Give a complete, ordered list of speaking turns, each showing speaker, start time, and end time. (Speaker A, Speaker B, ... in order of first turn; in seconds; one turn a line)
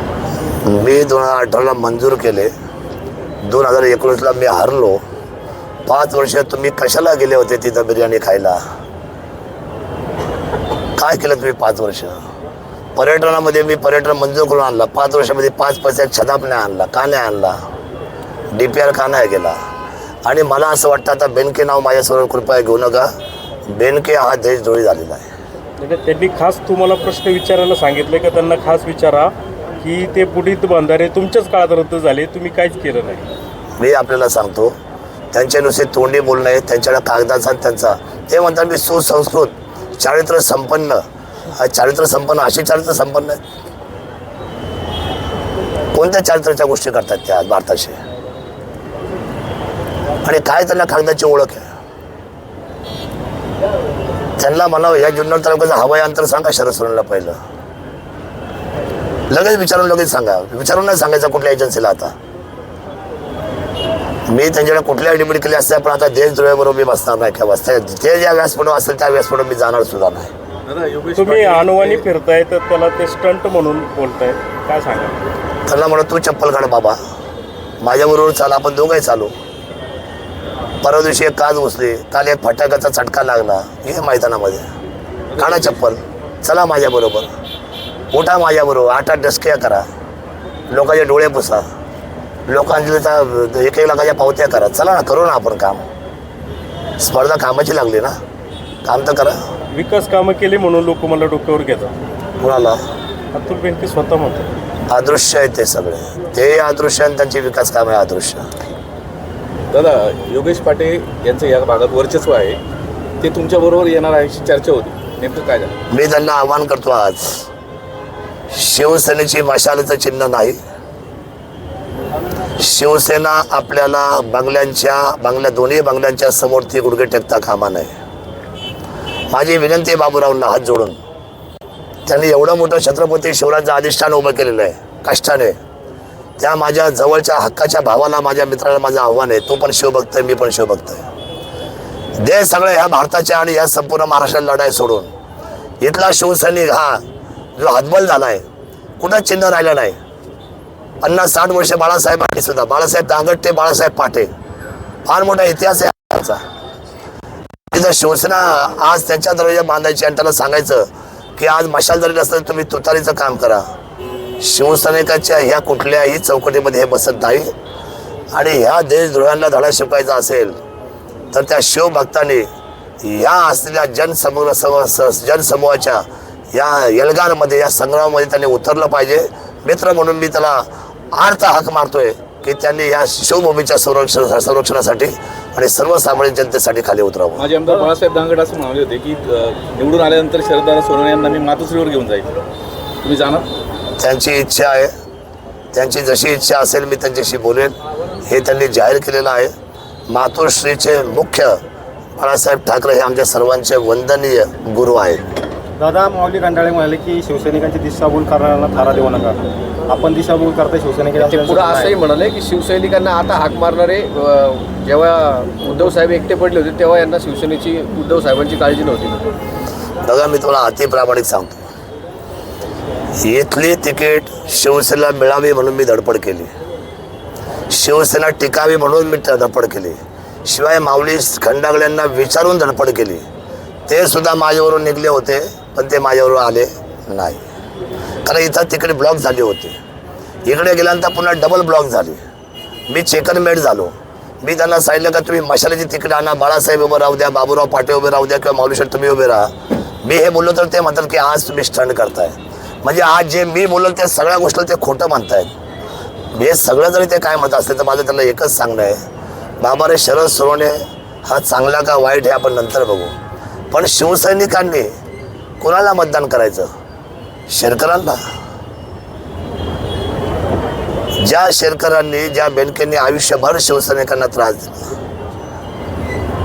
Speaker A: 0.7-2.5
Speaker A: 3.4-5.0
Speaker A: 5.9-8.6
Speaker A: 11.0-12.2
Speaker A: 13.0-17.6
Speaker A: 18.5-19.6
Speaker A: 20.2-23.1
Speaker A: 23.7-25.3
Speaker B: 25.8-33.2
Speaker A: 33.8-34.8
Speaker A: 35.3-41.0
Speaker A: 41.5-43.4
Speaker A: 45.9-48.0
Speaker A: 50.2-51.6
Speaker A: 54.4-57.4
Speaker A: 59.3-62.1
Speaker A: 64.3-70.3
Speaker C: 70.7-72.0
Speaker B: 71.2-75.2
Speaker A: 75.7-77.0
Speaker A: 77.8-79.3
Speaker A: 80.8-84.7
Speaker C: 85.3-85.8
Speaker A: 85.4-87.3
Speaker A: 88.1-89.8
Speaker A: 90.7-91.7
Speaker A: 92.5-95.8
Speaker A: 97.0-98.2
Speaker A: 98.8-99.4
Speaker B: 99.7-101.9
Speaker A: 102.4-102.8
Speaker B: 103.3-104.5
Speaker A: 104.9-108.5
Speaker C: 109.7-112.6
Speaker C: 113.2-115.7
Speaker A: 115.9-117.5
Speaker A: 118.5-120.6
Speaker A: 122.6-127.9
Speaker A: 129.3-131.0
Speaker A: 132.1-135.6
Speaker A: 136.4-141.0
Speaker A: 142.2-145.1
Speaker A: 145.8-147.0
Speaker A: 147.6-148.4
Speaker A: 149.0-150.0
Speaker A: 151.0-154.3
Speaker A: 155.1-156.4
Speaker A: 157.7-163.6
Speaker A: 164.4-167.5
Speaker A: 168.3-170.6
Speaker A: 171.3-172.5
Speaker A: 173.0-187.5
Speaker C: 187.4-192.3
Speaker C: 193.0-193.5
Speaker A: 194.0-194.9
Speaker A: 195.7-199.5
Speaker A: 200.1-201.6
Speaker A: 202.2-205.2
Speaker D: 205.8-211.9
Speaker E: 211.2-219.2
Speaker A: 220.0-221.6
Speaker A: 223.2-226.5
Speaker A: 227.7-233.2
Speaker A: 233.9-237.4
Speaker A: 238.2-239.8
Speaker A: 240.5-242.2
Speaker A: 242.9-243.9
Speaker A: 244.4-249.5
Speaker A: 250.0-255.5
Speaker A: 256.3-259.0
Speaker A: 259.6-263.1
Speaker A: 263.7-264.9
Speaker A: 265.6-266.7
Speaker A: 267.5-268.2
Speaker A: 271.2-274.9